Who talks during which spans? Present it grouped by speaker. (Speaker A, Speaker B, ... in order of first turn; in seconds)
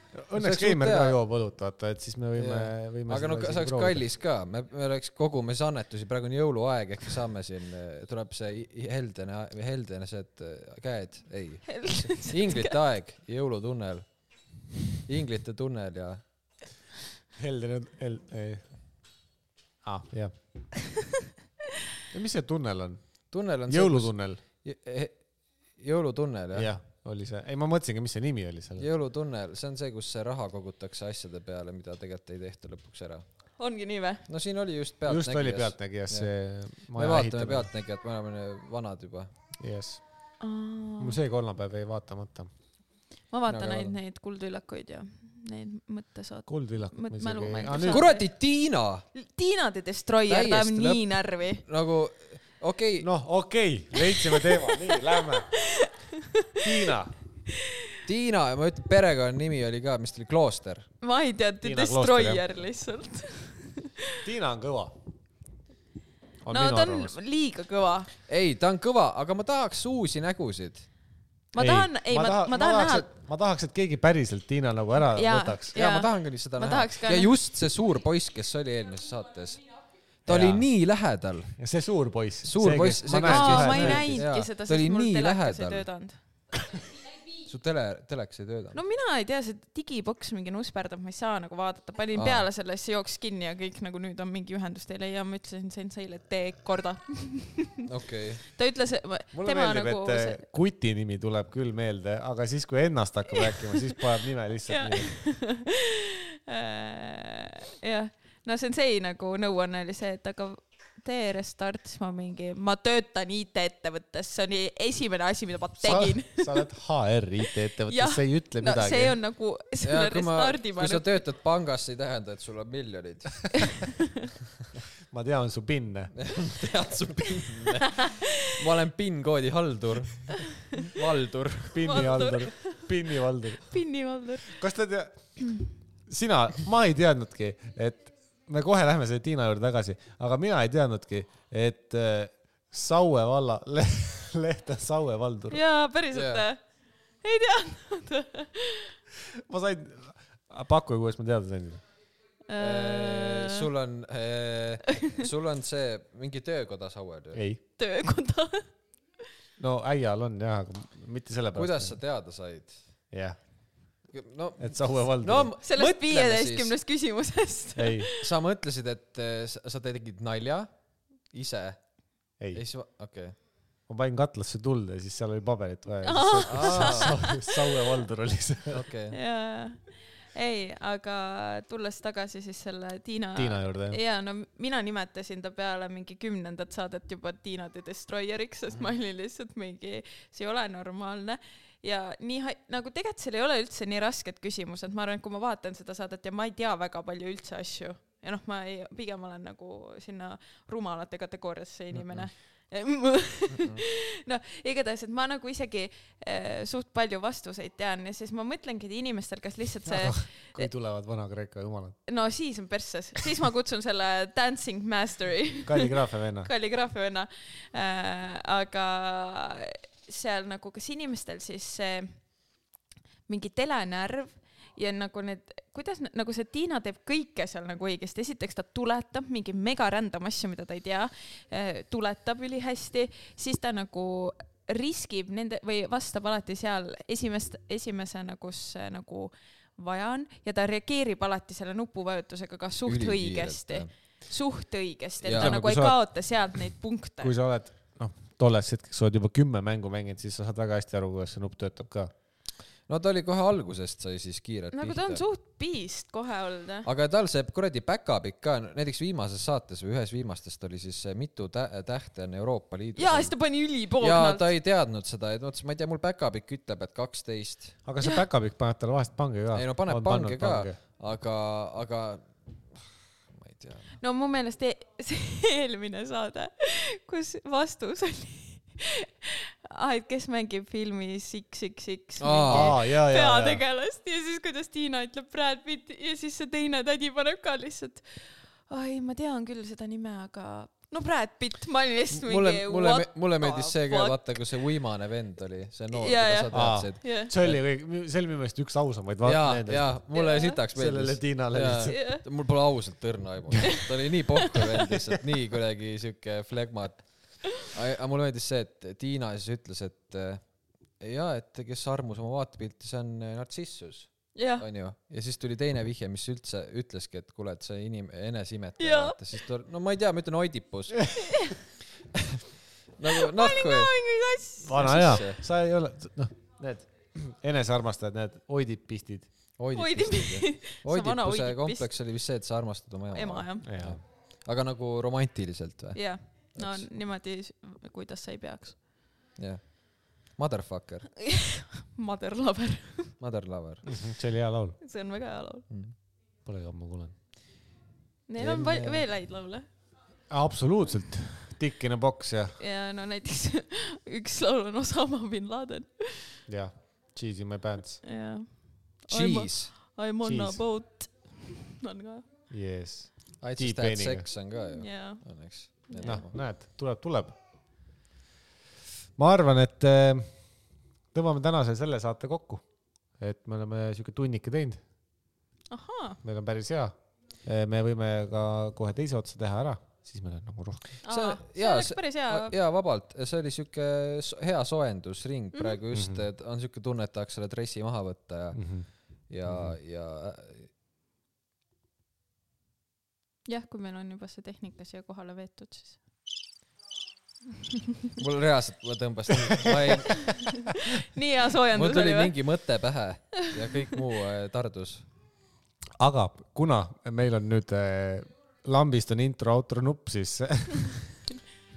Speaker A: 0.1-4.0, 17.4-18.6, 19.8-20.4, 22.1-24.4, 26.6-28.9, 35.1-37.7, 39.6-40.0, 41.0-42.5, 46.5-48.1, 53.0-55.6, 56.6-57.1, 61.6-62.4, 64.2-65.0, 66.4-67.1, 71.6-75.8, 80.3-80.7, 81.6-84.2, 99.3-105.1, 115.8-119.2, 125.1-126.1, 131.7-133.8, 134.4-135.4, 136.1-145.6, 149.3-151.8, 157.3-157.6, 159.6-162.0, 163.1-163.4, 164.6-165.5, 167.8-168.1, 173.9-178.8, 183.4-184.0, 209.9-212.0, 215.7-216.5, 245.3-246.0, 247.2-252.1, 267.9-270.8, 282.5-283.6, 296.5-299.9, 300.7-302.0, 324.6-329.3, 333.6-334.0, 343.9-344.8, 346.4-347.1, 348.5-348.8, 350.3-352.6, 356.5-358.0, 360.2-360.6, 362.5-364.3, 366.1-367.4, 369.2-370.3, 371.1-372.6, 373.2-374.8, 376.2-380.9, 385.9-386.2, 388.5-388.9, 389.5-389.8, 399.5-399.9, 406.0-411.1
Speaker B: 0.4-1.2, 2.4-14.3, 15.1-16.2, 23.3-26.7, 28.8-33.2, 34.3-36.3, 36.9-39.3, 43.5-44.0, 47.9-49.1, 50.3-53.1, 58.0-60.9, 68.3-70.9, 75.7-81.6, 82.4-85.8, 87.4-88.8, 92.2-92.5, 97.9-98.4, 119.8-123.6, 126.2-132.0, 146.1-146.4, 152.6-157.4, 161.6-162.9, 164.1-166.7, 168.2-170.7, 171.3-171.8, 172.5-173.3, 176.5-177.1, 178.7-179.2, 203.5-203.8, 242.9-243.9, 245.2-245.6, 252.9-255.2, 256.8-263.4, 264.0-267.8, 269.5-273.9, 282.2-282.7, 292.1-297.6, 299.2-310.4, 311.0-321.5, 323.0-323.9, 324.8-325.4, 329.6-336.9, 339.4-341.1, 343.2-343.9, 345.7-345.9, 348.4-349.0, 359.1-359.8, 363.4-366.4, 381.0-390.7, 398.2-400.4, 401.7-405.1
Speaker C: 11.7-12.7, 33.6-34.3, 40.4-41.2, 43.3-48.3, 49.1-51.6, 53.9-56.9, 61.0-64.2, 66.5-68.1, 71.5-73.1, 75.1-77.3, 83.1-86.2, 88.7-97.8, 98.4-100.5, 103.5-103.9, 104.7-116.7, 117.9-121.2, 128.0-128.4, 131.8-133.0, 133.7-134.6, 145.5-146.6, 147.2-149.0, 152.5-153.7, 157.8-158.7, 165.6-168.3, 176.0-177.8, 179.1-210.7, 212.1-222.2, 223.3-247.3, 254.7-256.9, 263.0-264.5, 274.0-294.2, 295.9-297.3, 300.1-300.6, 301.9-302.2, 314.4-314.6, 318.8-319.2, 321.2-321.6, 323.2-325.1, 329.8-331.9, 333.1-333.7, 335.9-338.8, 341.2-343.2, 344.8-345.7, 348.3-349.7, 352.6-356.4, 358.0-362.3, 364.6-366.2, 375.7-376.2, 381.1-382.5, 393.5-396.0, 400.4-402.4